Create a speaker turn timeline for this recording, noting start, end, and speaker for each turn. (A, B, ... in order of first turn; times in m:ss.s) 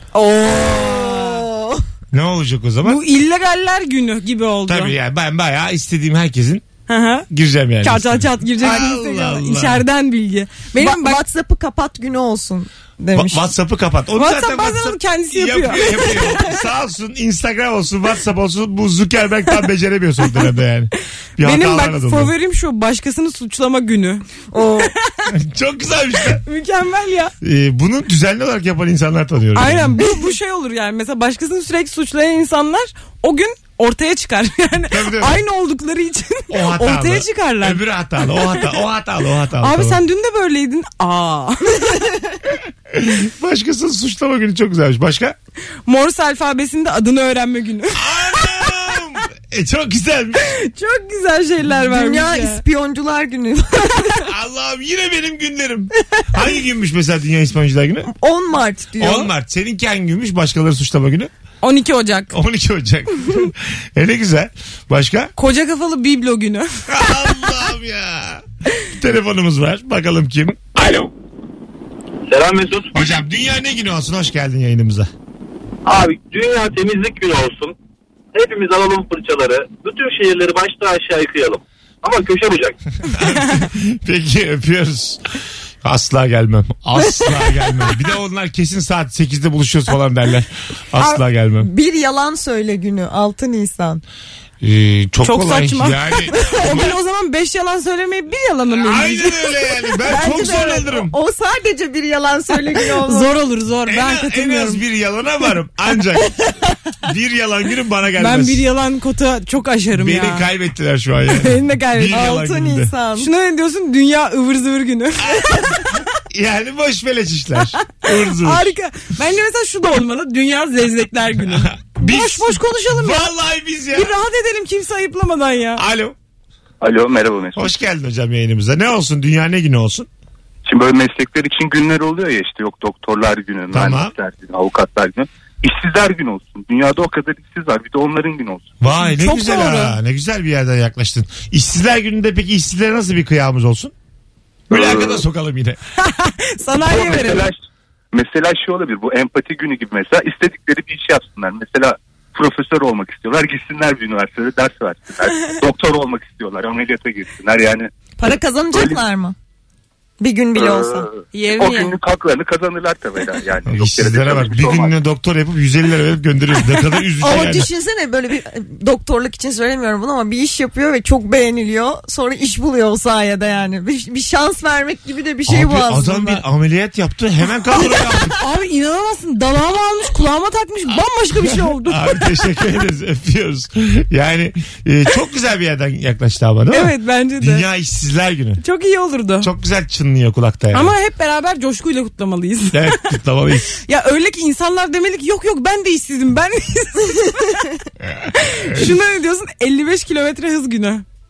0:00.2-0:01.4 A
0:00.2-0:01.8 B
0:02.1-0:03.0 C
0:02.8-0:05.0 A
0:04.7-0:06.6 C
0:06.9-0:07.3 A
0:07.3-0:09.8 C
0:07.8-0:11.2 A
0:10.8-0:13.5 B
0:13.1-0:22.3 C
0:14.2-0:16.3 A
0:21.4-0:24.2 A
0:24.5-0:24.9 B
0:24.8-0:25.3 A
0:25.3-0:26.4 C
0:26.4-0:27.3 A
0:27.4-0:30.0 C
0:29.6-0:38.6 A
0:34.9-0:35.4 C
0:36.5-0:40.0 C
0:39.6-0:42.0 A
0:42.9-0:45.4 C
0:45.9-0:48.0 A
0:48.0-0:50.5 C
0:50.5-0:52.6 A
0:51.7-0:54.2 B
0:54.2-0:58.1 C
0:58.1-0:59.3 B
0:59.0-1:01.3 C
1:01.6-1:02.3 A
1:02.3-1:05.3 C
1:05.4-1:06.7 A
1:06.9-1:11.1 C
1:12.3-1:13.1 D
1:12.9-1:15.1 C
1:15.8-1:17.8 D
1:18.3-1:22.8 D
1:23.0-1:25.2 C
1:25.8-1:31.7 C
1:31.0-1:34.0 B
1:34.6-1:36.9 C
1:35.2-1:39.5 A
1:38.8-1:41.1 C
1:40.0-1:43.3 B
1:43.0-1:44.8 A
1:43.9-1:46.4 C
1:47.0-1:48.6 C
1:48.2-1:50.5 A
1:50.0-1:52.9 C
1:51.3-1:52.3 A
1:52.1-1:53.3 B
1:53.2-1:56.0 A
1:55.4-1:55.6 C
1:56.3-1:58.7 C
1:57.7-2:03.3 A
2:01.5-2:04.1 C
2:03.9-2:05.8 A
2:05.8-2:06.2 C
2:06.8-2:07.7 E
2:07.6-2:10.1 C
2:10.7-2:18.7 E
2:13.7-2:14.2 C
2:18.8-2:23.9 C
2:18.9-2:20.0 A
2:24.7-2:25.8 C
2:24.7-2:25.2 E
2:26.0-2:27.5 A
2:26.8-2:27.6 E
2:28.1-2:37.9 E
2:38.2-2:39.4 B
2:38.7-2:39.0 E
2:40.2-2:41.1 B
2:40.6-2:44.9 E
2:41.3-2:42.0 A
2:43.7-2:47.7 C
2:47.2-2:56.4 B
2:55.5-2:58.4 C
2:57.8-2:58.2 B
2:58.4-3:02.2 A
3:01.8-3:08.6 C
3:06.7-3:07.6 A
3:08.6-3:09.5 A
3:09.4-3:10.9 C
3:10.7-3:13.0 A
3:12.7-3:13.8 C
3:13.8-3:17.7 A
3:18.1-3:18.9 C
3:18.4-3:21.0 A